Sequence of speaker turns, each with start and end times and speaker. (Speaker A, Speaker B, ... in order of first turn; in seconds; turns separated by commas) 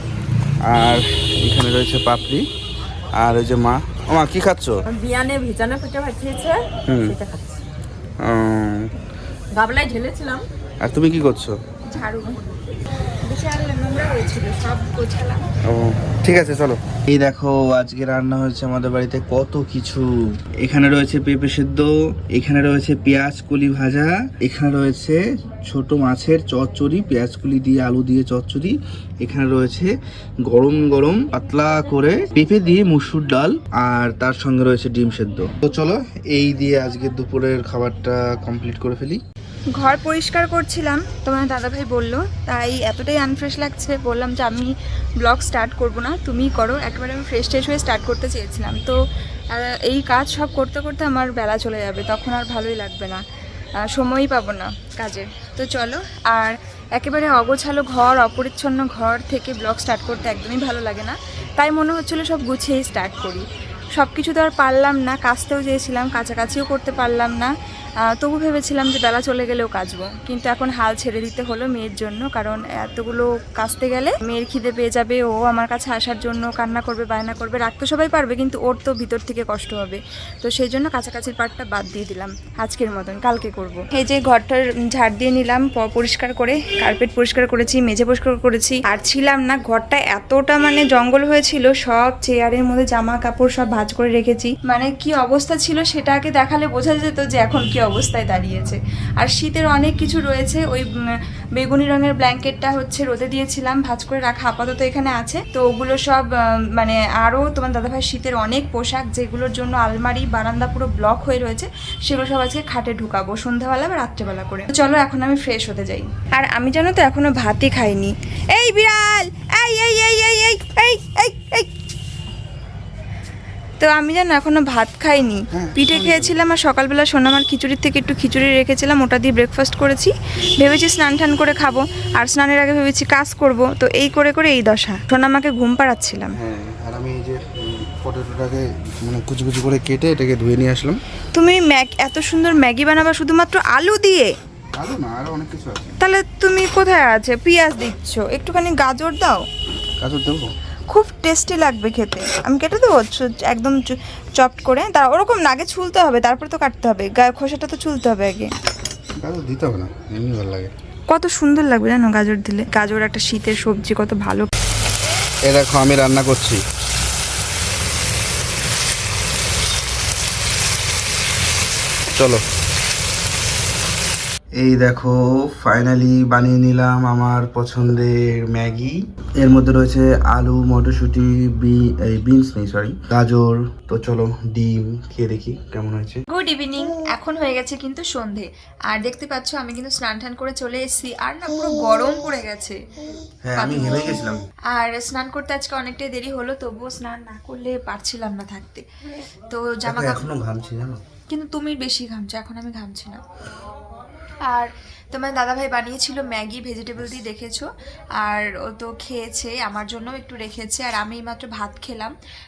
Speaker A: 0.7-2.5, Speaker A: 3.2-4.8, Speaker B: 4.9-6.6, Speaker C: 5.4-6.6, Speaker A: 6.9-7.2, Speaker B: 7.1-7.6, Speaker A: 8.2-8.9, Speaker B: 9.5-10.4, Speaker A: 10.8-11.6, Speaker C: 11.9-12.4, Speaker C: 13.2-15.5, Speaker A: 15.6-29.9, Speaker A: 30.4-39.2, Speaker C: 39.7-49.0, Speaker C: 49.5-53.2, Speaker C: 53.8-67.5, Speaker C: 68.0-100.9, Speaker C: 101.6-121.7, Speaker C: 123.8-136.4, Speaker A: 125.5-126.4, Speaker A: 136.4-141.0, Speaker C: 141.3-144.3, Speaker A: 144.8-146.0, Speaker C: 146.0-149.5, Speaker A: 150.0-150.5, Speaker C: 150.9-158.5, Speaker A: 159.2-160.7, Speaker C: 161.1-164.5, Speaker A: 165.5-166.6, Speaker A: 172.2-172.4, Speaker A: 174.6-186.2, Speaker C: 186.3-192.8, Speaker A: 193.5-194.4, Speaker C: 193.6-198.9, Speaker C: 199.5-200.2, Speaker A: 199.9-201.0, Speaker C: 201.3-203.2, Speaker C: 204.5-207.7, Speaker C: 208.2-212.2